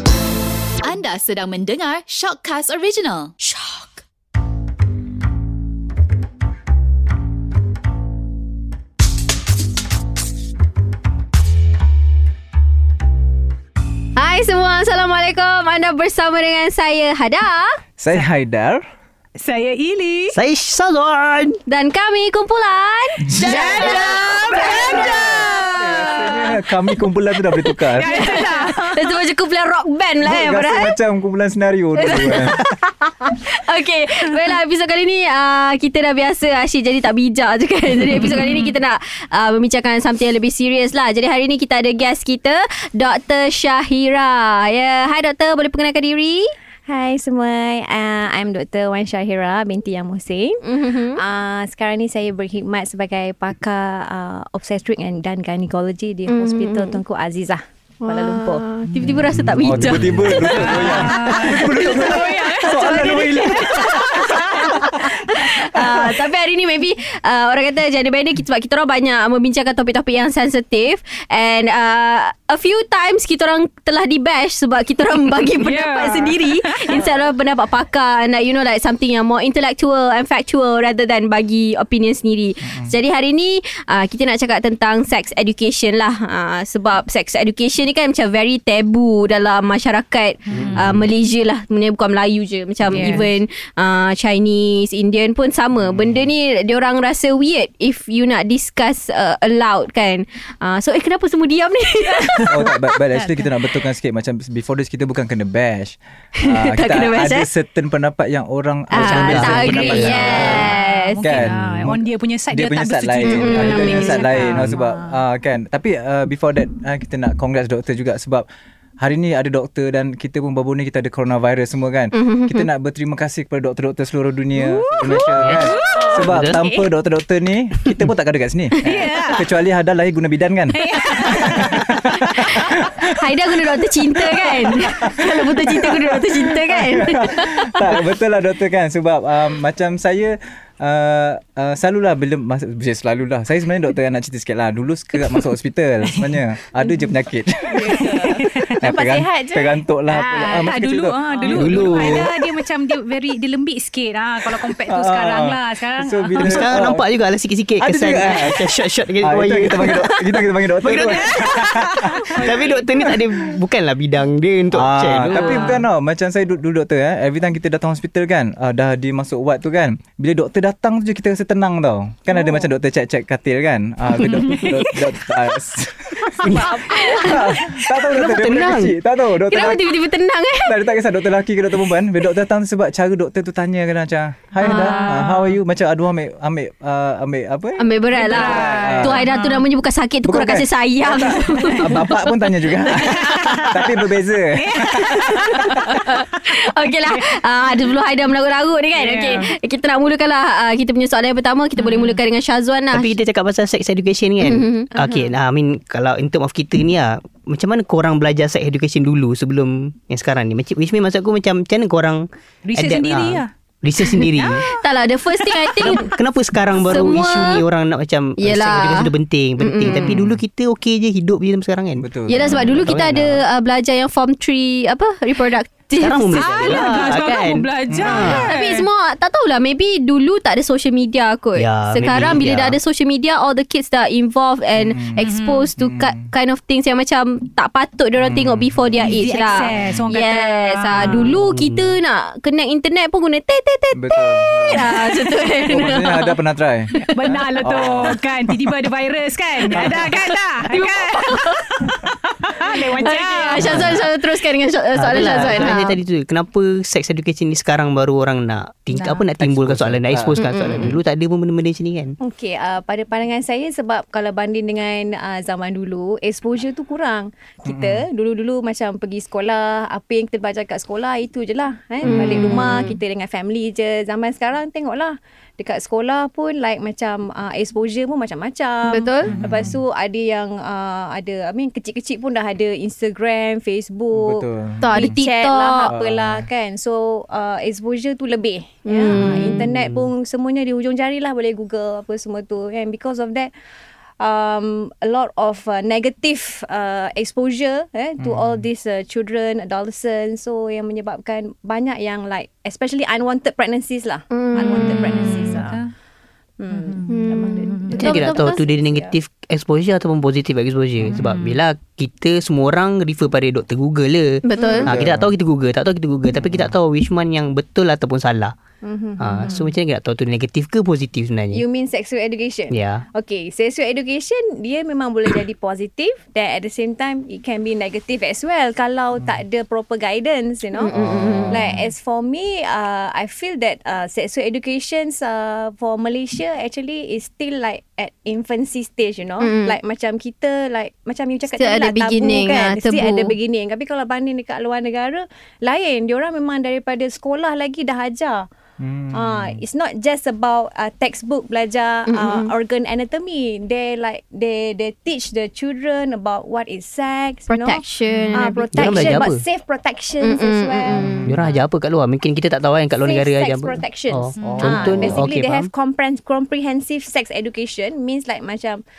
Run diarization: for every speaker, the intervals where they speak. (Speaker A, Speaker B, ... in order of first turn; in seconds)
Speaker A: 0.8-4.0
Speaker B: 14.2-17.8, 21.7-26.6, 27.6-30.9, 32.0-46.5, 50.6-51.2, 56.3-57.0, 58.0-61.5, 62.5-63.0, 63.6-102.8, 106.4-107.5, 108.9-111.5, 113.2-114.4, 122.1-122.7, 132.5-138.0, 176.9-177.5, 179.5-180.8, 184.6-185.1, 187.8-192.2, 195.4-203.1, 204.4-205.2, 214.6-216.2, 216.7-217.6, 218.4-220.3, 222.3-227.4, 228.2-246.4, 246.9-248.1, 250.6-251.9, 252.6-256.0, 260.4-261.0, 272.0-273.0, 278.9-279.5, 284.8-285.9, 288.8-289.6, 304.3-305.4, 307.1-308.6, 314.4-314.9, 330.7-331.6, 339.4-339.8, 341.5-343.4, 352.1-352.5, 357.5-359.2, 360.2-361.2
Speaker C: 18.0-18.8, 23.2-23.7, 24.8-28.2, 30.2-32.6, 59.1-65.0, 65.7-66.1, 82.6-83.0, 95.8-96.3, 102.5-118.4, 119.0-133.1, 134.0-152.2, 154.8-157.1, 157.8-162.7, 164.7-180.0, 180.6-189.2, 190.2-196.0, 219.8-220.4, 222.0-223.4, 227.9-228.5, 234.8-235.2, 235.8-236.3, 238.2-239.3, 241.0-241.9, 243.9-248.7, 249.7-250.1, 259.4-261.0, 267.6-268.1, 272.0-272.5, 279.2-279.8, 284.1-285.1, 285.9-286.5, 298.2-298.6, 314.8-315.3, 316.4-316.7, 330.9-331.9, 348.8-349.6, 360.9-361.4, 364.4-365.2
Speaker D: 19.4-20.4, 23.4-26.4, 28.0-29.1, 38.1-38.7, 60.4-64.9, 75.5-77.1, 90.5-90.8, 92.9-93.3, 102.1-103.5, 109.8-115.2, 124.6-126.7, 128.8-129.4, 130.7-132.7, 146.1-146.4, 147.8-148.8, 150.1-156.7, 161.0-163.2, 165.3-165.8, 174.2-175.2, 176.4-177.4, 184.6-185.6, 188.1-189.7, 191.5-192.1, 192.9-193.8, 194.6-196.0, 198.9-199.5, 201.8-202.2, 205.0-205.3, 212.7-215.8, 226.3-228.9, 235.2-235.7, 239.0-241.4, 247.0-254.1, 258.9-259.2, 304.6-305.9, 306.7-307.1, 307.6-308.1, 311.1-311.6, 358.1-358.4, 364.4-364.7
Speaker E: 20.3-21.6, 59.0-60.9, 108.9-110.7, 111.5-111.9, 114.4-114.8, 125.3-126.6, 151.5-152.3, 156.4-165.8, 176.4-177.2, 178.1-178.9, 202.9-214.7, 215.8-223.0, 226.0-228.5, 231.6-232.8, 253.6-254.0, 254.9-262.2, 289.1-290.1, 307.9-318.5, 319.2-321.6, 322.7-323.1, 358.7-359.4, 361.2-365.7
Speaker F: 46.9-58.6, 147.9-149.8, 262.2-293.5, 294.2-305.8, 306.6-309.1, 314.6-314.9, 318.8-319.7, 321.5-330.9, 331.5-348.4, 349.1-361.2, 363.0-368.8